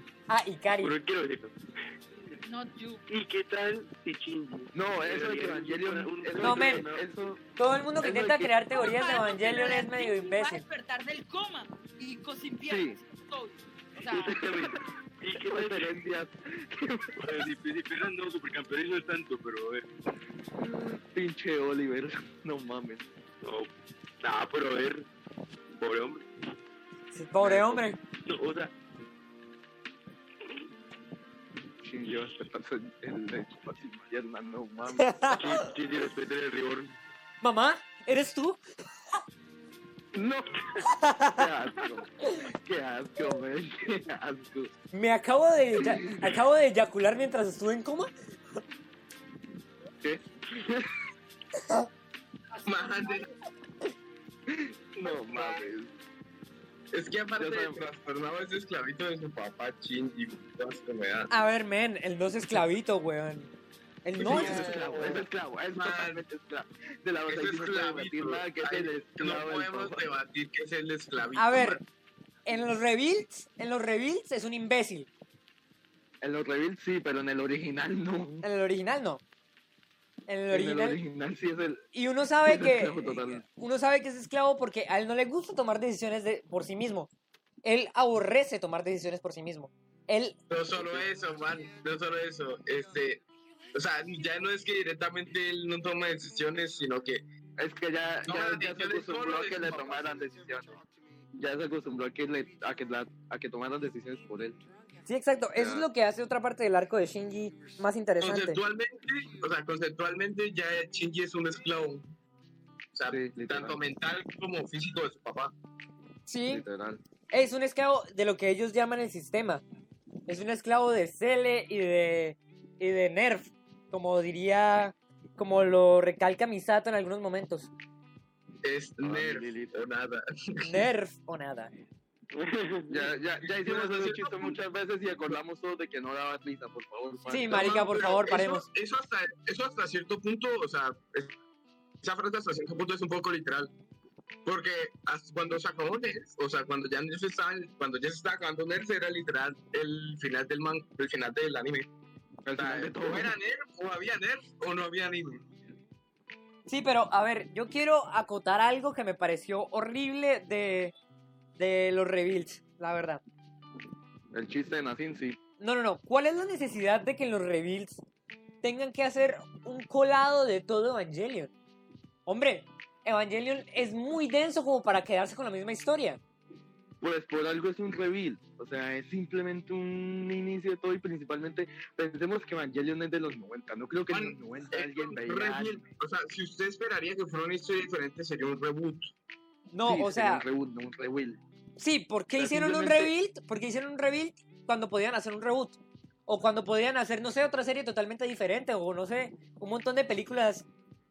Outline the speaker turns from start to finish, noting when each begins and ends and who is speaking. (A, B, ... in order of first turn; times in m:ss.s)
0:00.3-0:00.9 A
0:00.8-0:01.6 B
0:02.4-0:03.0 C
0:03.1-0:07.1 B
0:04.7-0:07.4 D
0:06.4-0:06.8 A
0:07.6-0:10.6 A
0:08.0-0:08.5 D
0:08.7-0:14.4 C
0:12.6-0:13.0 D
0:14.1-0:16.1 B
0:14.3-0:17.5 D
0:17.2-0:19.8 B
0:20.6-0:23.1 D
0:23.4-0:23.7 B
0:24.2-0:25.0 B
0:25.8-0:26.3 B
0:27.1-0:28.0 A
0:27.4-0:28.7 B
0:31.8-0:35.3 D
0:34.9-0:35.7 A
0:35.3-0:36.9 B
0:37.4-0:38.6 A
0:40.1-0:40.7 D
0:40.8-0:42.4 A
0:41.4-0:44.7 D
0:44.9-0:48.1 A
0:45.8-0:46.4 D
0:50.0-0:50.9 D
0:52.5-0:53.3 C
0:52.6-0:53.3 E
0:54.5-0:55.9 D
0:55.0-0:55.7 E
0:56.9-1:01.3 E
0:57.4-0:57.9 D
1:01.3-1:03.5 A
1:04.0-1:04.9 A
1:04.2-1:06.2 E
1:04.2-1:10.1 D
1:07.2-1:11.8 E
1:11.4-1:11.8 A
1:12.4-1:15.1 A
1:16.2-1:18.4 D
1:18.4-1:19.2 A
1:20.3-1:21.0 A
1:20.5-1:21.8 D
1:21.9-1:27.1 A
1:22.4-1:23.4 D
1:27.6-1:30.4 A
1:30.5-1:33.2 E
1:30.7-1:31.1 D
1:33.7-1:37.2 E
1:37.6-1:40.7 D
1:38.2-1:40.1 E
1:41.3-1:44.6 D
1:45.0-1:48.6 A
1:45.5-1:45.9 D
1:48.2-1:52.1 E
1:52.9-1:55.5 E
1:53.1-1:53.9 D
1:56.3-1:56.6 A
1:56.5-1:57.0 D
1:57.3-1:59.6 A
2:00.3-2:07.7 A
2:08.6-2:10.9 E
2:09.0-2:09.7 D
2:10.6-2:11.7 A
2:12.3-2:13.0 B
2:12.9-2:17.9 D
2:13.5-2:14.6 E
2:17.3-2:18.6 A
2:17.5-2:21.4 E
2:22.0-2:23.7 E
2:24.4-2:31.9 E
2:32.4-2:33.3 D
2:32.6-2:35.4 E
2:36.7-2:40.9 A
2:41.6-2:43.2 A
2:44.3-2:45.4 D
2:45.6-2:48.0 A
2:48.6-2:51.5 A
2:52.2-2:56.2 A
2:57.0-3:05.8 D
3:04.1-3:09.1 E
3:09.7-3:10.4 A
3:09.8-3:11.4 D
3:11.8-3:20.7 A
3:12.4-3:13.1 D